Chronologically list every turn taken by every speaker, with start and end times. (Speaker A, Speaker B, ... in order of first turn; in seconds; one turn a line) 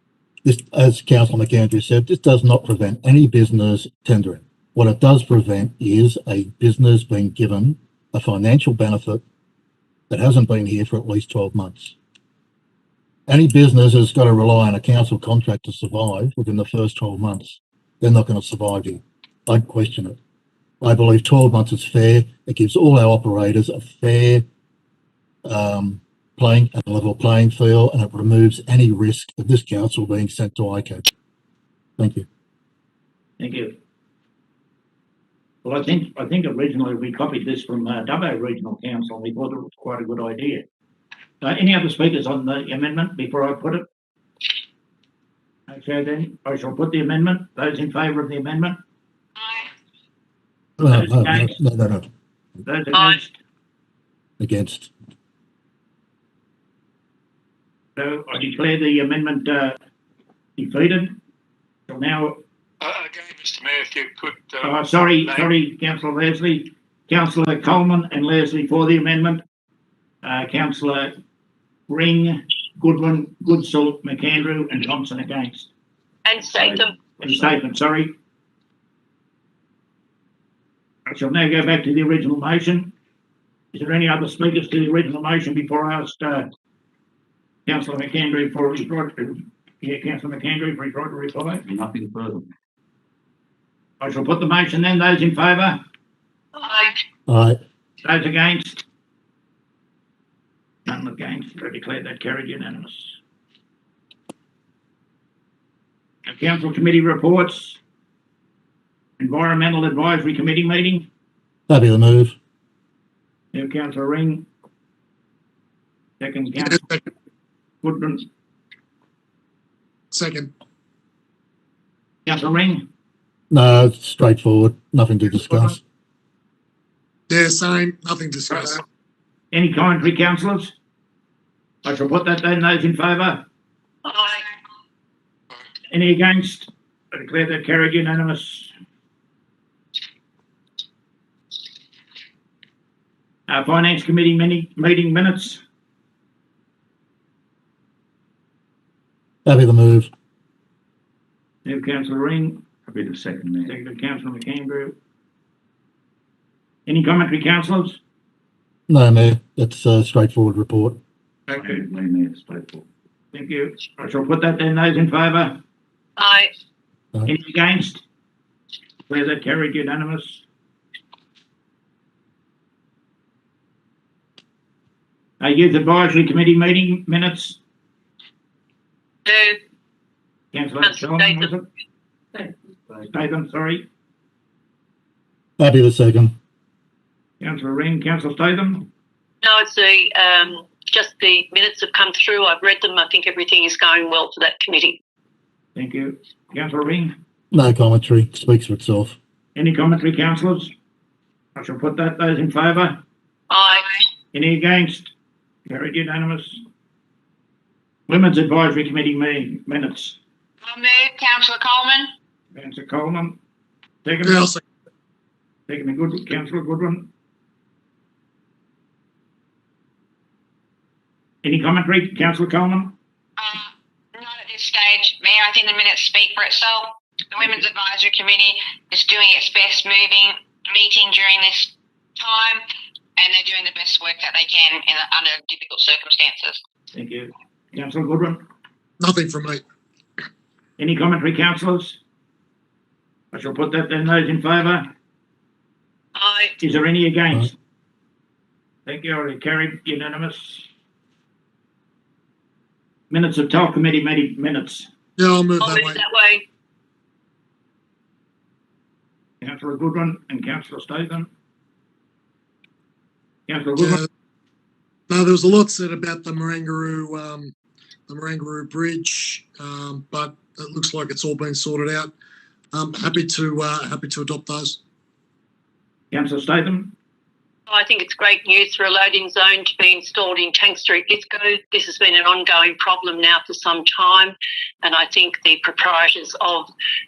Speaker A: 0.4-9.2
Speaker A: 10.1-11.9
Speaker A: 13.3-20.2
Speaker A: 20.8-24.4
Speaker A: 25.4-31.0
Speaker A: 32.0-32.2
Speaker B: 33.4-33.7
Speaker B: 35.6-40.6
Speaker B: 41.4-43.9
Speaker B: 45.7-48.8
Speaker C: 49.4-49.7
Speaker A: 50.8-52.1
Speaker B: 50.9-51.6
Speaker B: 52.6-53.4
Speaker D: 52.9-53.2
Speaker A: 54.4-54.9
Speaker B: 58.0-59.8
Speaker B: 60.6-61.2
Speaker B: 61.9-62.4
Speaker E: 62.8-65.5
Speaker B: 64.6-69.4
Speaker B: 70.2-71.1
Speaker B: 71.9-75.7
Speaker D: 76.2-76.9
Speaker B: 76.7-78.1
Speaker B: 81.1-82.9
Speaker B: 83.7-86.5
Speaker B: 87.7-91.6
Speaker F: 91.7-92.5
Speaker B: 94.0-95.8
Speaker D: 96.5-96.9
Speaker A: 97.3-97.6
Speaker B: 98.0-98.8
Speaker B: 100.8-103.2
Speaker B: 106.2-107.8
Speaker B: 109.2-111.1
Speaker A: 111.7-112.3
Speaker B: 113.5-114.5
Speaker B: 116.2-116.8
Speaker G: 116.6-117.0
Speaker B: 117.8-118.3
Speaker G: 120.1-120.5
Speaker B: 122.2-122.8
Speaker A: 123.5-125.8
Speaker G: 127.3-128.8
Speaker B: 129.5-130.7
Speaker B: 131.8-133.4
Speaker D: 134.0-134.5
Speaker B: 135.9-138.7
Speaker B: 143.5-145.6
Speaker A: 149.4-150.1
Speaker B: 151.6-152.6
Speaker F: 152.9-153.7
Speaker B: 153.6-154.9
Speaker B: 156.8-158.0
Speaker A: 158.9-161.0
Speaker F: 161.5-162.8
Speaker B: 161.5-161.8
Speaker B: 163.3-165.6
Speaker D: 166.2-166.5
Speaker B: 167.2-168.0
Speaker B: 169.1-170.4
Speaker B: 175.4-177.6
Speaker D: 179.2-179.6
Speaker B: 180.5-181.7
Speaker D: 180.8-181.5
Speaker B: 183.1-183.9
Speaker A: 185.6-186.3
Speaker B: 187.4-188.9
Speaker D: 189.4-195.0
Speaker B: 195.8-197.1
Speaker A: 197.5-199.2
Speaker B: 199.5-200.7
Speaker B: 201.6-203.0
Speaker D: 203.5-203.8
Speaker C: 203.7-204.0
Speaker B: 204.3-205.1
Speaker B: 205.7-206.6
Speaker B: 208.1-210.2
Speaker C: 210.6-212.1
Speaker B: 212.5-213.4
Speaker B: 214.0-214.5
Speaker G: 214.2-214.6
Speaker B: 215.7-217.1
Speaker B: 221.4-222.9
Speaker C: 223.4-232.6
Speaker C: 233.2-236.6
Speaker B: 236.9-238.4
Speaker G: 239.0-239.6
Speaker B: 240.8-242.0
Speaker B: 243.3-244.9
Speaker D: 246.2-246.5
Speaker B: 246.6-247.5
Speaker B: 248.8-250.7
Speaker B: 253.1-254.9
Speaker G: 255.2-256.0
Speaker D: 255.6-256.4
Speaker B: 259.4-261.3
Speaker B: 263.5-264.0
Speaker G: 263.8-264.1
Speaker G: 265.1-267.5
Speaker G: 268.1-272.1
Speaker G: 272.7-274.8
Speaker B: 276.1-276.9
Speaker D: 277.7-286.7